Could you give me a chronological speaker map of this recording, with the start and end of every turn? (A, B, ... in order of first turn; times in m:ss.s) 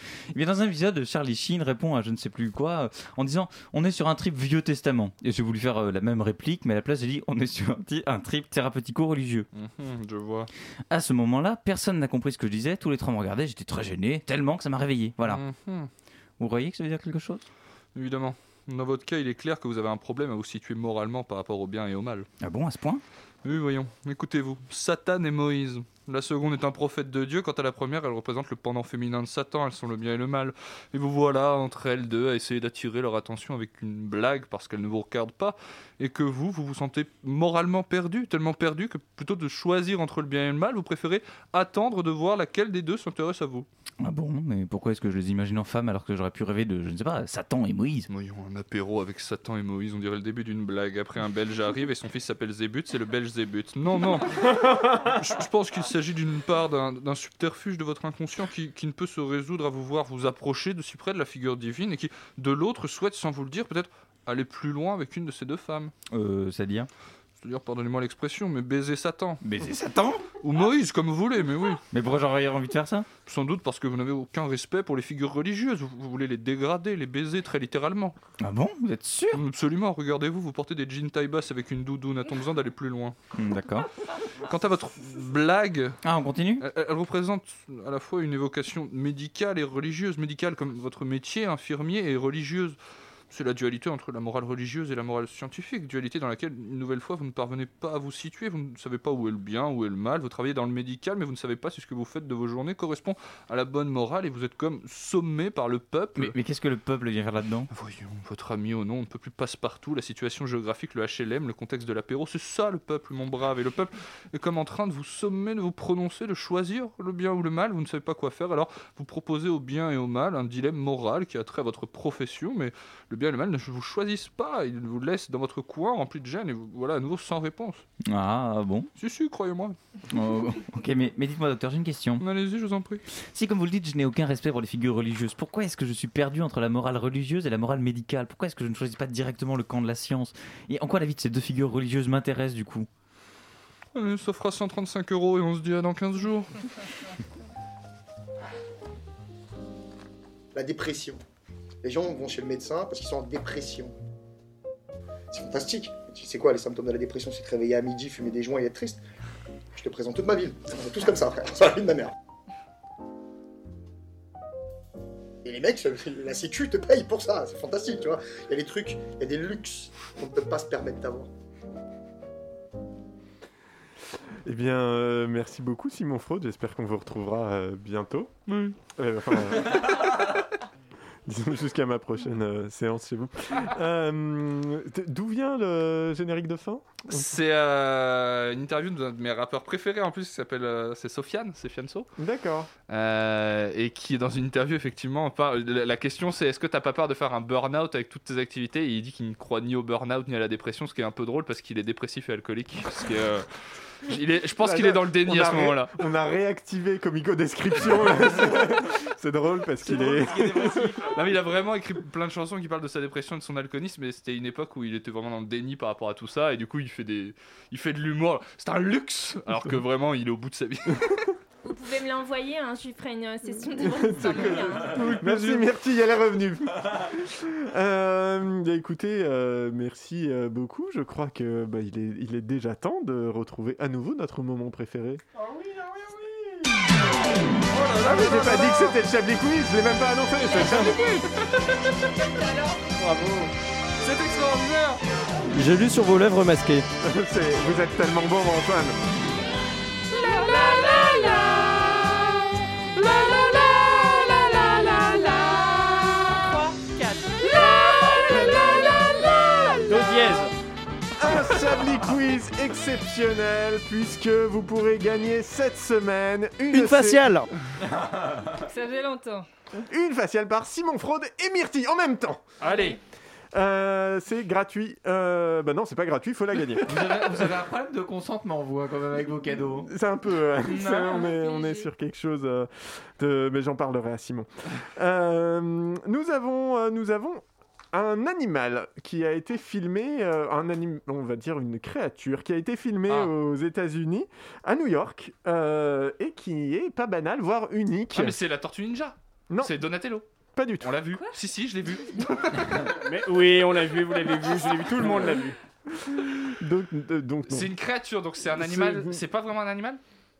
0:00.3-0:09.4 A
0:09.5-0:10.5 B
0:10.9-0:15.4 A
0:15.2-0:15.9 B
0:16.4-0:17.4 A
0:17.9-0:22.3 B
0:22.4-0:23.0 A
0:23.4-0:43.7 B
0:44.0-0:48.1 A
0:48.1-1:05.9 B
1:06.1-1:06.9 A
1:07.4-1:09.4 B
1:09.4-1:10.3 A
1:10.4-1:11.8 B
1:11.9-1:13.1 A
1:13.2-1:18.2 B
1:18.4-1:19.4 A
1:19.3-1:23.2 B
1:23.3-1:23.9 A
1:24.4-1:26.0 B
1:26.0-1:26.6 A
1:26.6-1:32.8 B
1:33.3-1:46.3 B
1:46.2-1:47.7 A
1:47.7-2:07.8 B
2:08.0-2:08.9 A
2:09.0-2:09.8 B
2:10.1-2:12.2 A
2:12.2-2:13.0 B
2:13.3-2:22.9 A
2:23.9-2:26.7 B
2:30.5-2:31.2 C
2:31.8-2:33.9 C
2:35.3-2:39.0 C
2:39.7-2:42.1 C
2:45.4-2:51.3 C
2:54.4-2:58.3 D
2:58.5-2:58.8 B
2:59.0-3:00.0 D
3:01.3-3:07.3 D
3:07.1-3:12.1 B
3:12.2-3:12.7 D
3:12.9-3:23.4 B
3:24.0-3:25.9 B
3:24.6-3:31.0 D
3:29.8-3:31.2 A
3:31.1-3:41.2 B
3:41.6-3:45.1 E
3:43.8-3:55.2 D
3:44.9-3:45.7 F
3:57.7-3:58.8 B
3:58.0-4:01.1 D
4:00.5-4:01.3 E
4:02.4-4:02.8 E
4:03.0-4:03.5 F
4:04.0-4:05.0 B
4:05.5-4:06.9 G
4:07.0-4:09.0 D
4:10.1-4:12.3 E
4:10.6-4:11.4 A
4:13.0-4:20.4 E
4:19.9-4:20.5 F
4:21.2-4:27.3 D
4:26.7-4:27.5 G
4:27.8-4:28.5 A
4:28.6-4:29.5 E
4:29.9-4:32.4 D
4:32.6-4:32.9 B
4:32.6-4:33.0 E
4:33.5-4:37.2 D
4:36.8-4:39.9 A
4:39.8-4:58.4 D
4:40.8-4:41.9 E
4:58.1-5:00.2 B
4:59.5-4:59.8 D
5:00.5-5:01.0 D
5:00.8-5:02.8 B
5:02.9-5:05.6 F
5:05.0-5:05.3 D
5:05.9-5:07.7 D
5:07.5-5:10.0 B
5:08.5-5:09.2 D